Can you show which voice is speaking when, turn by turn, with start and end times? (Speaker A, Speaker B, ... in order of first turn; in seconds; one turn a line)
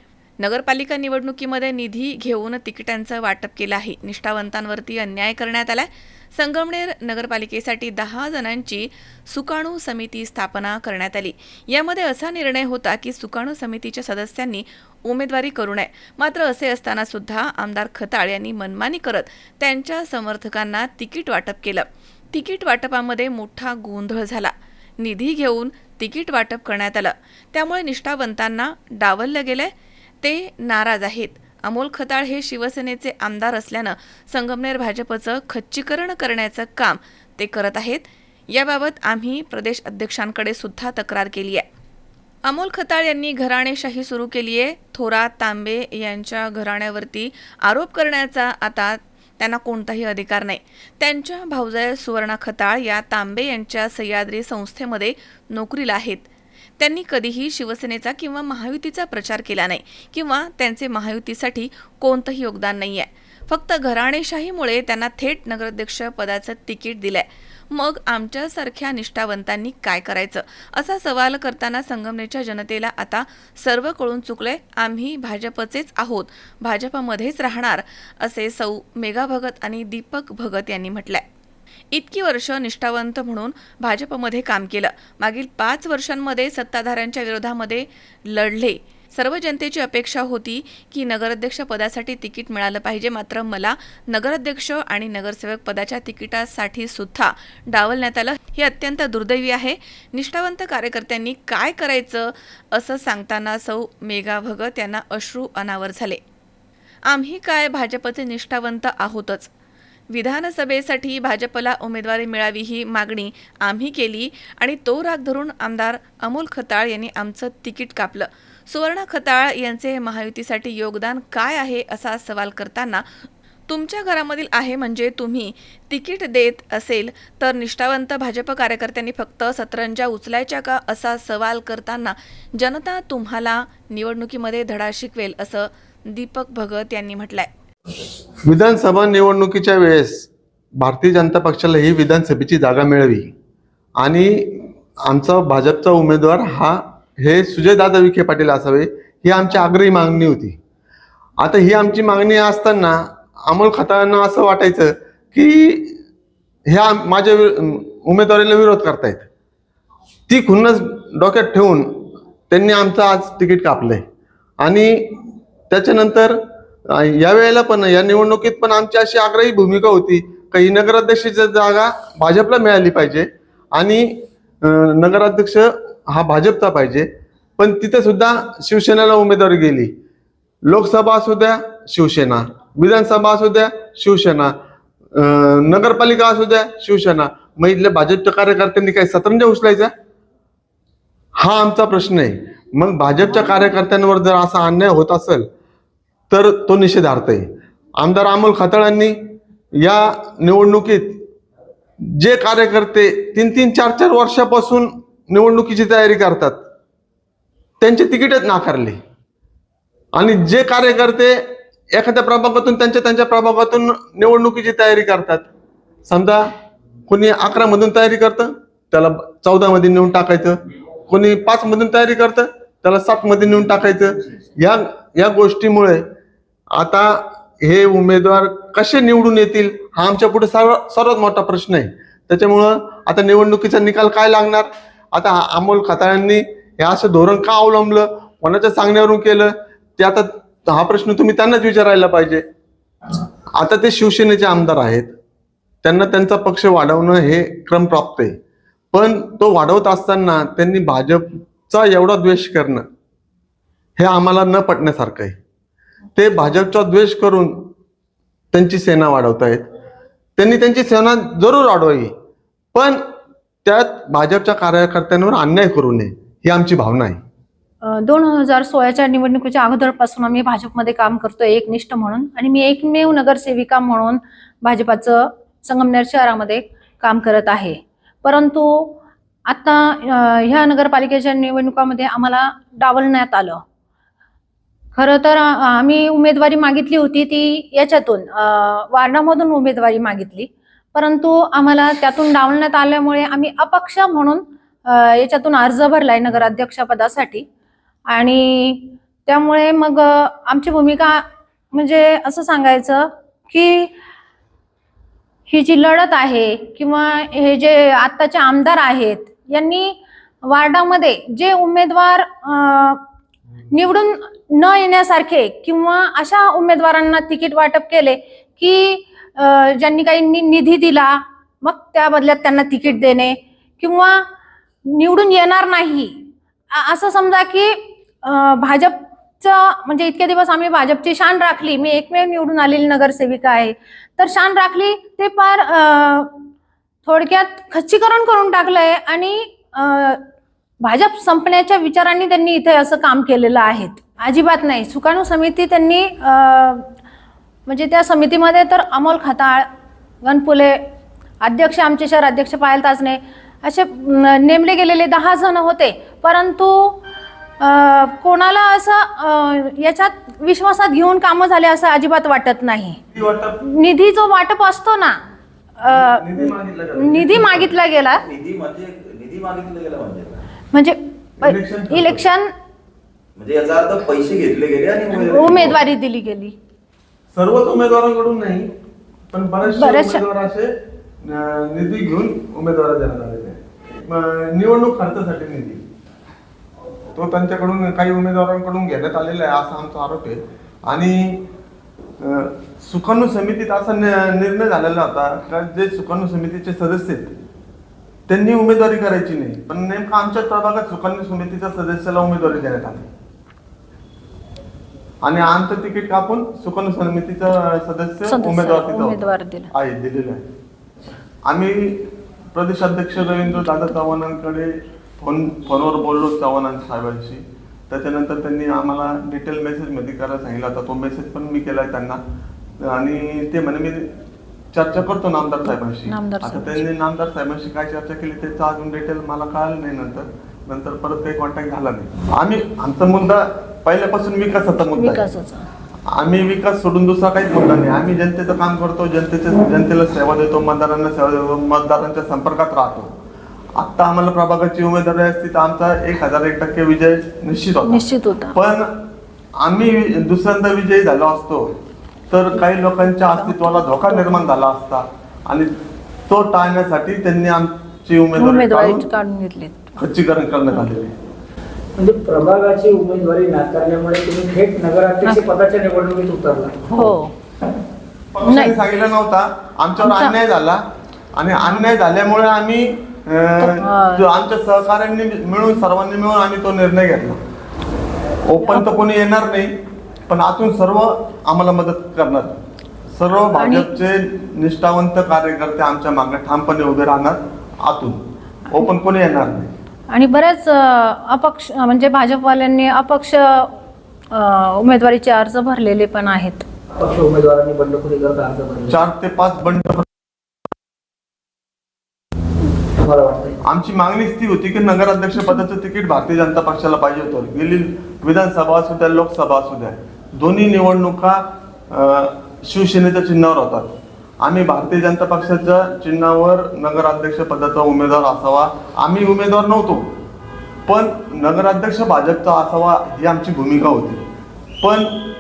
Speaker A: 0.4-29.7
Speaker A: 30.2-41.6
Speaker A: 42.5-56.3
Speaker A: 56.8-81.2
Speaker A: 81.9-106.2
Speaker A: 107.1-109.5
Speaker A: 110.1-123.1
Speaker A: 123.7-137.5
Speaker B: 138.5-143.3
Speaker B: 144.0-150.6
Speaker B: 151.4-156.0
Speaker B: 156.7-159.3
Speaker B: 160.3-164.0
Speaker B: 164.6-166.4
Speaker B: 166.9-179.9
Speaker B: 180.7-184.5
Speaker B: 185.2-189.9
Speaker B: 191.4-195.5
Speaker B: 196.3-197.5
Speaker B: 198.0-199.2
Speaker B: 199.8-201.2
Speaker B: 202.1-206.6
Speaker B: 207.8-209.0
Speaker B: 210.2-215.5
Speaker B: 216.1-216.4
Speaker B: 217.1-226.0
Speaker B: 226.8-242.4
Speaker B: 243.6-245.1
Speaker B: 245.8-248.3
Speaker B: 248.9-252.8
Speaker B: 254.0-255.4
Speaker B: 256.2-257.7
Speaker B: 258.5-259.6
Speaker B: 260.4-262.1
Speaker B: 262.8-263.0
Speaker B: 263.6-267.2
Speaker C: 267.8-283.6
Speaker C: 285.0-297.5
Speaker C: 298.1-303.9
Speaker C: 305.5-313.0
Speaker C: 313.7-324.2
Speaker C: 324.9-336.3
Speaker C: 337.1-340.2
Speaker C: 340.8-346.9
Speaker C: 347.7-349.7
Speaker C: 350.2-350.9
Speaker C: 351.4-357.0
Speaker C: 357.6-363.0
Speaker B: 363.1-363.6
Speaker C: 363.6-365.2
Speaker C: 365.8-368.2
Speaker B: 365.9-367.8
Speaker D: 368.2-370.4
Speaker C: 370.7-372.5
Speaker B: 371.4-372.2
Speaker D: 373.4-375.8
Speaker C: 375.2-376.6
Speaker B: 377.3-378.7
Speaker B: 379.3-380.7
Speaker C: 379.6-380.2
Speaker B: 381.2-385.8
Speaker B: 387.1-391.4
Speaker B: 392.2-397.3
Speaker B: 398.3-403.1
Speaker B: 405.2-410.4
Speaker C: 408.3-409.7
Speaker B: 411.5-422.2
Speaker B: 422.8-424.1
Speaker B: 424.7-435.3
Speaker C: 426.1-426.8
Speaker C: 434.9-435.7
Speaker B: 436.1-443.1
Speaker B: 443.8-448.9
Speaker C: 447.9-448.6
Speaker B: 449.6-451.7
Speaker B: 452.3-455.7
Speaker C: 453.2-454.5
Speaker B: 456.3-459.1
Speaker C: 458.4-460.0
Speaker B: 460.0-461.1
Speaker E: 462.0-466.8
Speaker C: 466.9-467.3
Speaker B: 468.3-470.8
Speaker C: 468.4-468.8
Speaker C: 470.0-470.4
Speaker B: 471.4-477.4
Speaker C: 473.6-474.2
Speaker B: 478.4-479.7
Speaker C: 478.6-479.0
Speaker B: 480.3-482.6
Speaker B: 483.1-489.7
Speaker C: 483.6-483.9
Speaker C: 490.1-493.7
Speaker C: 494.3-496.7
Speaker E: 497.0-499.0
Speaker B: 498.9-500.1
Speaker E: 503.0-503.6
Speaker B: 503.7-520.1
Speaker B: 520.9-524.2
Speaker B: 524.8-525.2